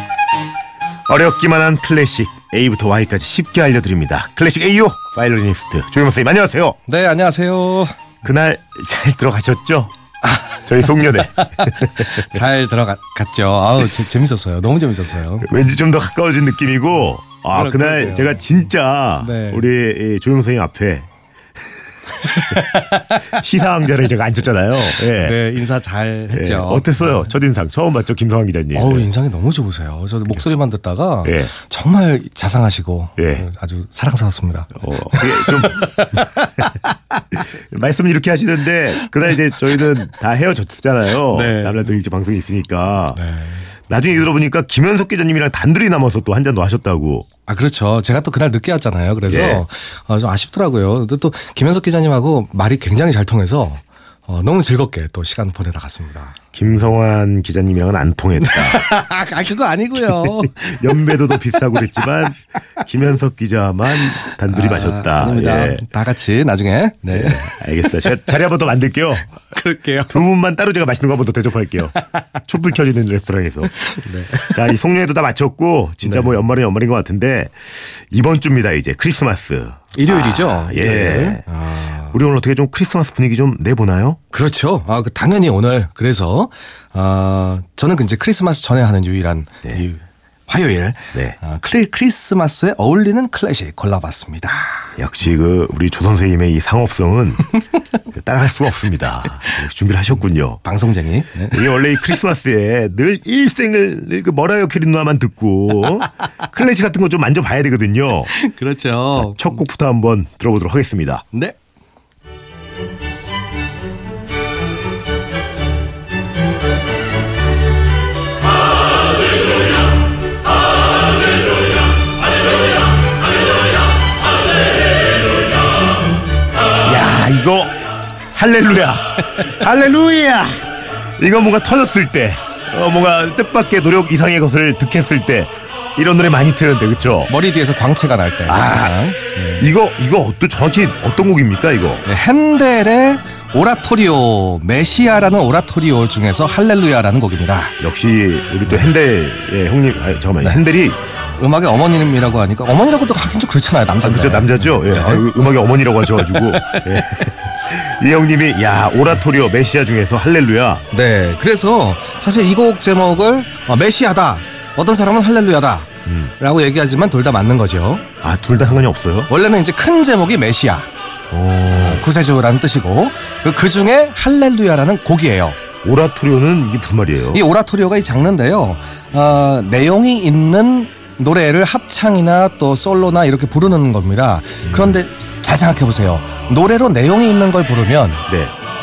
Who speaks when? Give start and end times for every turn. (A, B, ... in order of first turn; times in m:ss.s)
0:01.1-0:06.8 A
0:06.9-0:08.0 B
0:08.2-0:09.9 A
0:10.2-0:15.5 B
0:10.6-0:12.2 A
0:15.4-0:21.1 A
0:17.5-0:18.6 B
0:19.2-0:19.7 B
0:22.1-0:23.4 B
0:23.3-0:25.4 A
0:24.8-0:27.3 B
0:26.3-0:29.1 A
0:28.7-0:36.9 B
0:31.2-0:31.5 A
0:33.2-0:33.4 A
0:34.8-0:36.2 A
0:37.3-0:43.2 A
0:41.3-0:41.8 B
0:43.2-0:43.6 B
0:43.9-0:47.3 A
0:47.5-0:56.4 B
0:49.3-0:49.6 A
0:56.5-0:58.8 A
0:58.4-1:02.0 B
1:00.0-1:05.8 A
1:04.2-1:08.0 B
1:07.1-1:09.3 A
1:09.3-1:10.2 B
1:10.1-1:11.9 A
1:12.5-1:13.7 A
1:13.7-1:14.7 B
1:14.4-1:21.4 A
1:16.0-1:16.4 B
1:19.9-1:22.2 B
1:22.1-1:24.2 A
1:24.3-1:34.9 B
1:35.0-1:37.5 A
1:38.1-1:40.6 A
1:40.6-1:41.9 B
1:41.5-1:48.3 A
1:48.3-1:49.4 B
1:49.1-1:51.2 A
2:06.8-2:07.7 A
2:08.3-2:10.6 A
2:11.2-2:17.3 A
2:17.3-2:19.7 B
2:18.4-2:18.9 A
2:19.6-2:22.0 A
2:22.0-2:27.8 B
2:27.8-2:31.0 A
2:31.4-2:35.3 B
2:34.0-2:40.8 A
2:36.2-2:37.2 B
2:40.9-2:48.0 B
2:46.0-2:46.3 A
2:48.2-2:49.3 A
2:49.3-2:50.9 B
2:51.3-2:52.0 A
2:51.7-2:55.6 B
2:55.8-2:57.4 A
2:57.3-3:08.2 B
3:04.6-3:05.0 A